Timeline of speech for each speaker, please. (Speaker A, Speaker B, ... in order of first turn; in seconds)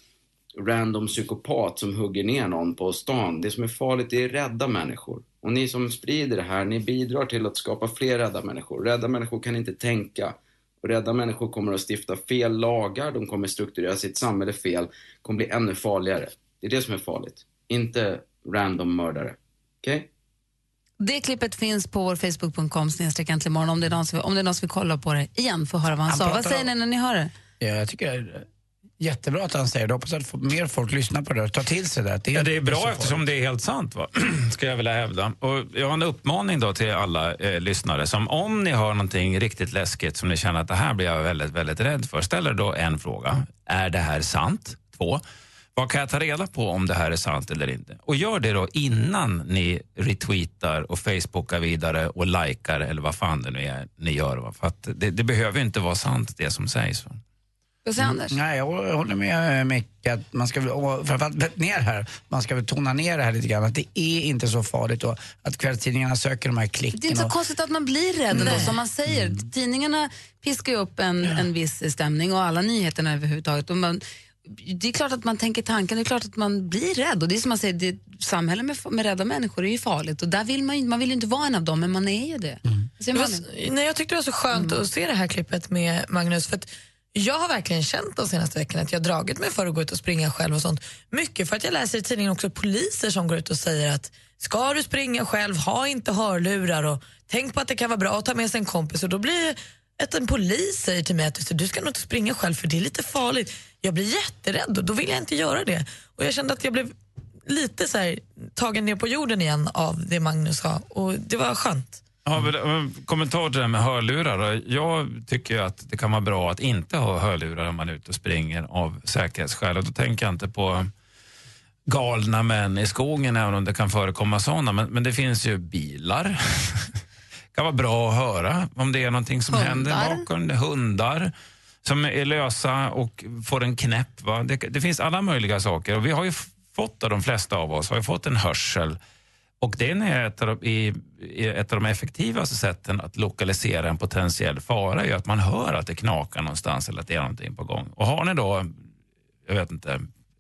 Speaker A: 0.6-20.1
Speaker B: 21.0-27.3, 57.9-58.3, 66.9-83.4, 84.5-84.8, 129.5-130.3
Speaker C: 26.1-26.7, 27.6-28.5, 29.0-33.3, 58.0-67.3, 68.3-69.4
Speaker D: 32.3-45.2, 45.8-57.2, 112.2-120.9, 121.9-126.9, 127.5-131.3, 131.8-139.0, 139.6-148.7, 149.5-150.1
Speaker E: 68.3-68.7, 83.1-106.9, 107.5-112.0